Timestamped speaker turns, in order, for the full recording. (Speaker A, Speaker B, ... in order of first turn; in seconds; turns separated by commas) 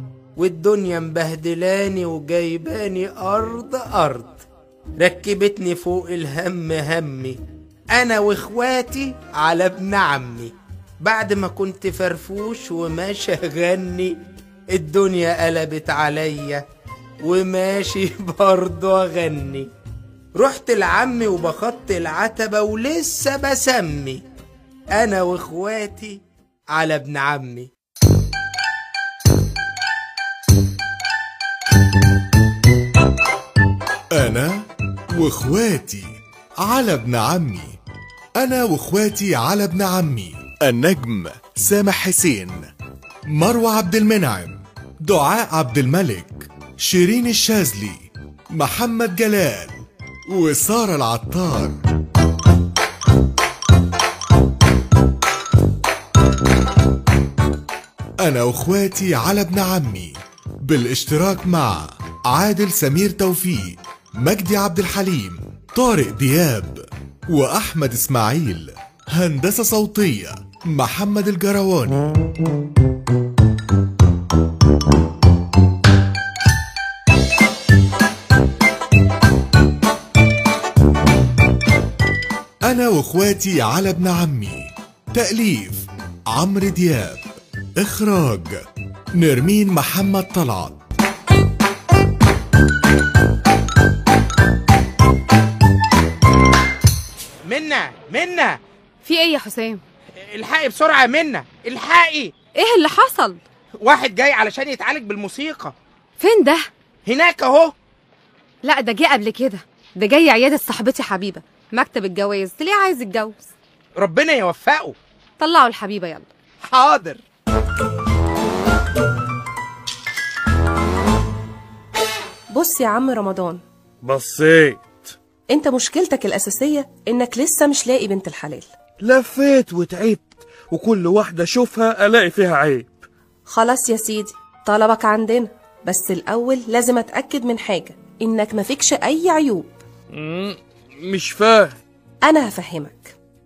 Speaker A: 0.4-4.4, Speaker A: 5.0-7.4, Speaker A: 7.9-10.5, Speaker A: 11.0-14.1, Speaker A: 14.7-16.6, Speaker A: 17.2-19.7, Speaker A: 20.4-24.2, Speaker A: 25.0-26.1, Speaker A: 26.8-27.7, Speaker B: 34.1-36.1, Speaker B: 36.6-37.8, Speaker B: 38.4-42.6, Speaker B: 43.3-51.8, Speaker B: 58.2-60.1, Speaker B: 60.6-72.0, Speaker B: 82.7-87.2, Speaker B: 87.8-88.6, Speaker B: 89.2-90.8, Speaker A: 97.5-98.6, Speaker C: 99.0-99.8, Speaker A: 100.2-102.3, Speaker C: 102.5-103.4, Speaker A: 103.8-105.7, Speaker C: 106.2-106.7, Speaker A: 107.1-107.7, Speaker C: 108.6-113.5, Speaker A: 114.0-115.0, Speaker C: 115.4-116.3, Speaker A: 116.6-117.2, Speaker D: 122.5-123.6, Speaker E: 124.0-124.8, Speaker D: 125.5-128.7, Speaker E: 129.0-132.9, Speaker D: 133.5-139.8, Speaker E: 140.2-141.7, Speaker D: 142.2-143.1